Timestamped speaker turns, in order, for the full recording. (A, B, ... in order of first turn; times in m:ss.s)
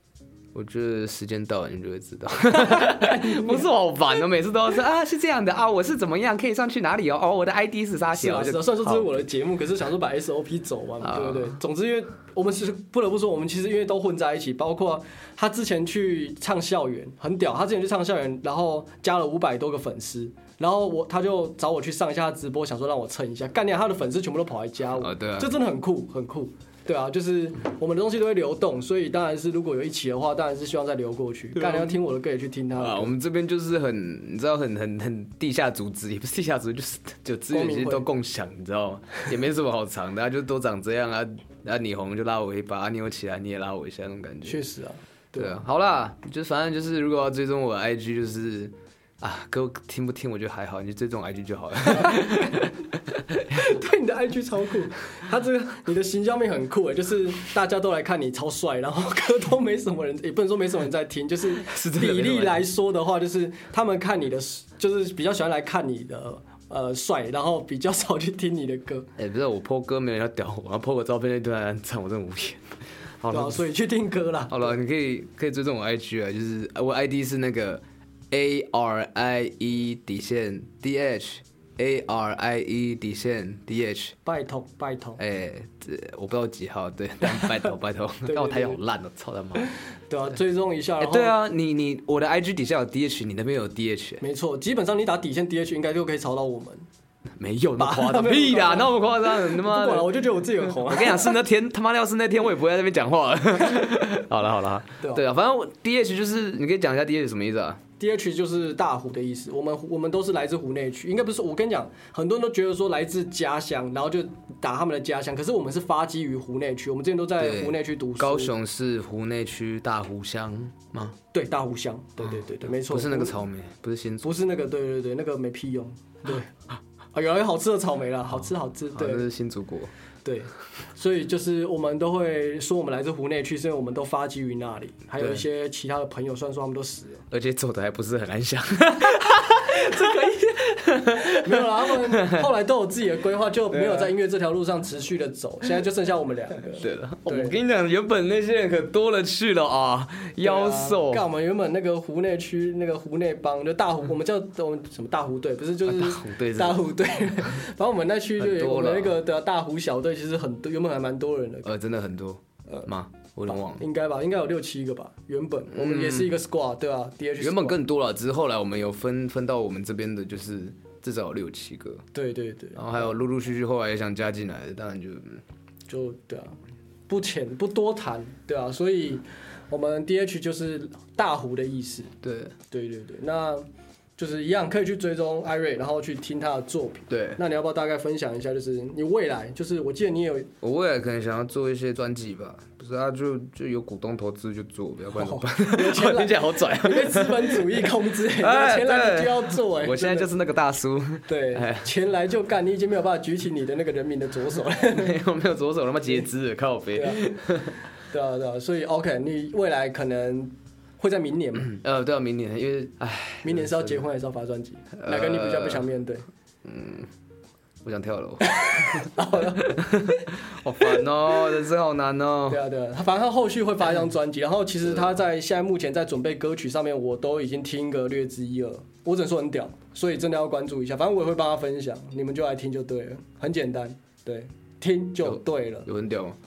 0:00.5-0:09.2 A
0:02.5-0:03.7 B
0:08.1-0:33.1 B
0:11.0-0:11.6 A
0:25.0-0:25.5 A
0:31.6-0:32.0 A
0:32.8-0:44.6 A
0:37.5-0:38.1 B
0:44.4-0:45.6 B
0:45.4-0:52.8 A
0:51.9-0:52.6 B
0:53.3-1:09.1 B
1:01.6-1:02.7 A
1:09.2-1:13.6 A
1:13.3-1:14.8 B
1:14.5-1:24.2 A
1:24.2-1:25.2 B
1:25.2-1:29.7 A
1:28.3-1:28.8 B
1:29.6-1:31.4 B
1:31.0-1:34.2 A
1:34.2-1:36.9 B
1:37.4-1:47.8 A
1:37.8-1:41.4 B
1:45.0-1:45.3 B
1:48.0-1:58.5 B
1:57.4-2:01.2 A
2:01.3-2:03.4 B
2:02.3-2:04.3 A
2:04.2-2:06.5 B
2:07.1-2:09.3 B
2:08.9-2:09.9 A
2:10.2-2:17.2 B
2:15.2-2:15.4 A
2:17.3-2:22.5 A
2:19.6-2:27.6 B
2:23.7-2:24.1 A
2:26.8-2:31.3 A
2:30.4-2:41.8 B
2:35.8-2:36.9 A
2:38.4-2:39.2 A
2:41.6-2:43.8 A
2:43.5-2:47.8 B
2:45.7-2:46.3 A
2:47.4-2:52.0 A
2:52.1-2:53.1 B
2:52.8-2:55.4 A
2:55.9-2:56.6 B
2:57.1-3:02.1 B
3:02.2-3:02.6 A
3:02.7-3:03.6 B
3:04.2-3:10.5 B
3:07.1-3:07.4 A
3:10.6-3:21.9 A
3:15.1-3:20.3 B
3:21.3-3:25.2 B
3:25.0-3:27.8 A
3:27.0-3:27.5 B
3:28.1-3:31.8 B
3:31.7-3:34.0 A
3:33.4-3:36.2 B
3:35.0-3:35.8 A
3:36.6-3:37.1 A
3:37.8-3:42.6 A
3:38.4-3:40.3 B
3:42.5-3:55.9 B
3:55.2-3:56.4 A